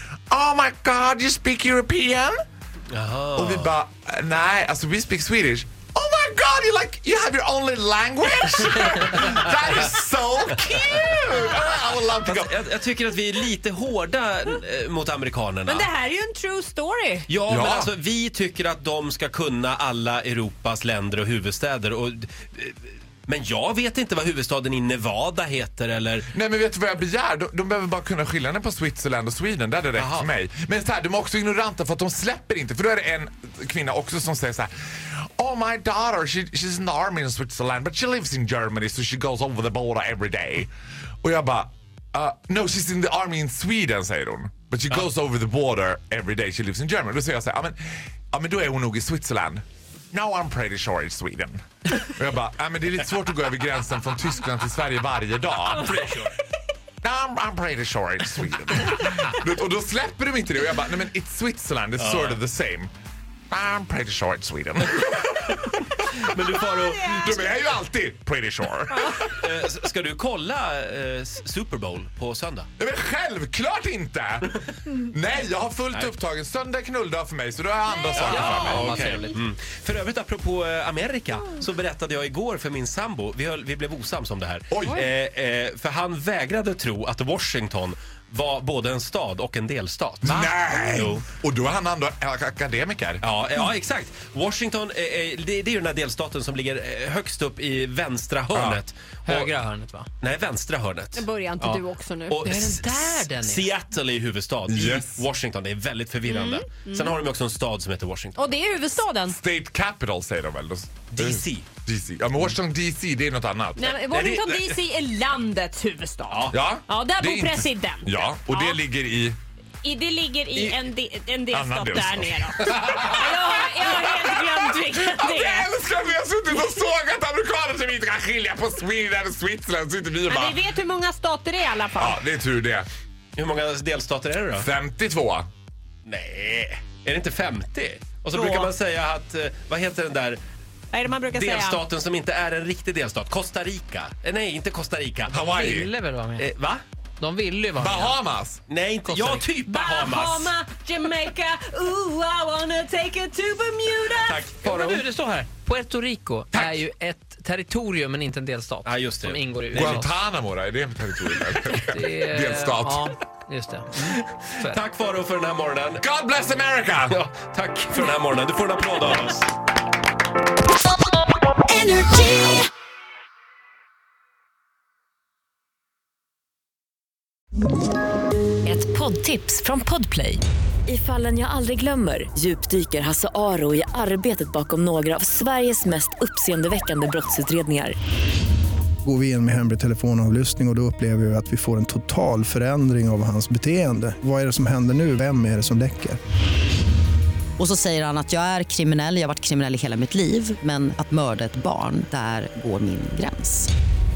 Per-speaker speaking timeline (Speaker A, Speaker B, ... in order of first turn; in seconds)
Speaker A: 0.3-2.4, 3.4-12.3, 17.5-17.9, 26.3-40.7, 41.2-47.8, 48.3-56.0, 57.0-62.9, 63.5-65.5, 67.0-69.2, 72.8-74.5, 75.1-78.7, 90.2-93.2, 109.3-113.8, 116.5-119.3, 121.5-123.3, 124.0-130.6, 132.0-132.9, 134.6-135.5, 145.4-145.9, 147.8-148.6, 159.7-163.1, 166.0-167.2
Speaker B: 2.9-3.7, 12.2-15.9, 17.3-26.3, 30.0-30.3, 55.7-56.3, 62.0-62.4, 65.6-67.4, 69.1-72.7, 78.2-91.2, 93.2-99.5, 100.2-108.4, 111.1-111.7, 113.8-114.8, 116.3-116.6, 133.3-134.7, 136.1-140.4, 141.3-145.4, 146.4-146.8, 148.7-150.5, 154.2-155.1, 158.8-160.0, 164.1-166.0, 167.1-169.5
Speaker C: 8.3-9.8, 77.6-78.8, 104.7-105.0, 197.6-203.7
Speaker D: 15.7-17.2, 66.6-67.4, 77.9-79.1, 101.2-102.5, 106.3-107.1, 108.4-109.4, 113.8-118.8, 119.8-125.7, 126.5-126.8, 130.3-132.2, 138.3-138.7, 140.9-141.8, 149.7-154.4
Speaker E: 78.2-79.4, 99.2-100.1, 102.4-103.7, 145.3-146.4, 147.2-148.2, 149.0-149.5, 154.5-160.1, 161.4-164.8
Speaker F: 171.7-172.6, 178.6-187.9
Speaker G: 189.0-196.2